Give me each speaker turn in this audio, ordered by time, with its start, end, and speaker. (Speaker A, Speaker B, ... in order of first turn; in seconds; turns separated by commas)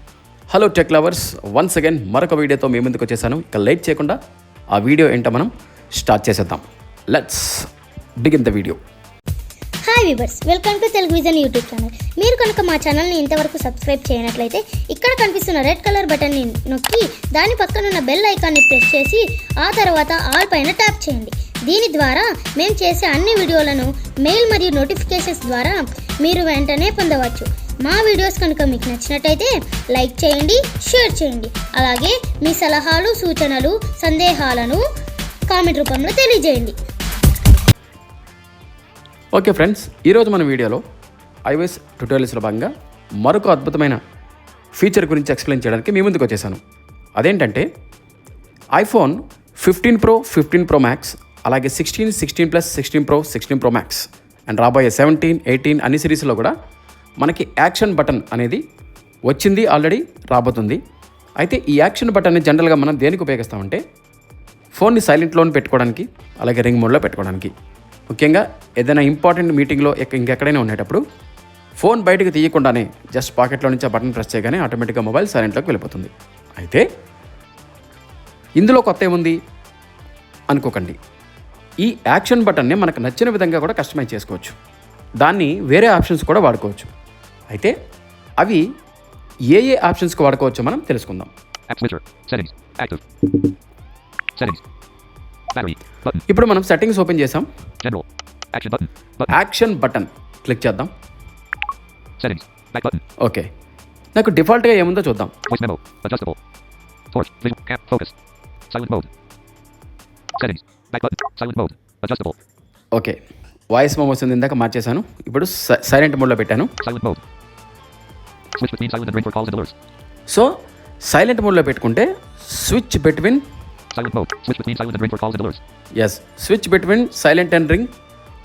Speaker A: 0.5-4.2, Speaker A: 4.7-7.7, Speaker A: 8.2-8.8, Speaker B: 9.9-34.8, Speaker B: 35.5-36.8, Speaker A: 39.3-40.8, Speaker A: 41.5-44.0, Speaker A: 44.7-46.6, Speaker A: 47.2-47.6, Speaker A: 48.8-56.5, Speaker A: 57.2-58.6, Speaker A: 59.3-60.8, Speaker A: 61.4-63.8, Speaker A: 64.8-67.5, Speaker A: 68.1-71.0, Speaker A: 71.8-76.8, Speaker A: 78.6-79.4, Speaker A: 80.5-81.0, Speaker A: 81.8-84.5, Speaker A: 85.2-86.9, Speaker A: 89.5-91.3, Speaker C: 91.7-93.0, Speaker C: 95.5-96.2, Speaker A: 96.3-97.5, Speaker C: 97.8-99.3, Speaker A: 99.3-100.9, Speaker C: 102.2-103.0, Speaker A: 103.2-103.5, Speaker A: 104.1-105.3, Speaker C: 105.5-106.4, Speaker C: 107.1-108.1, Speaker C: 108.7-109.1, Speaker C: 110.4-112.3, Speaker A: 113.7-116.7, Speaker C: 116.8-117.2, Speaker C: 118.6-119.7, Speaker A: 121.0-123.4, Speaker C: 123.9-125.6, Speaker A: 126.0-127.9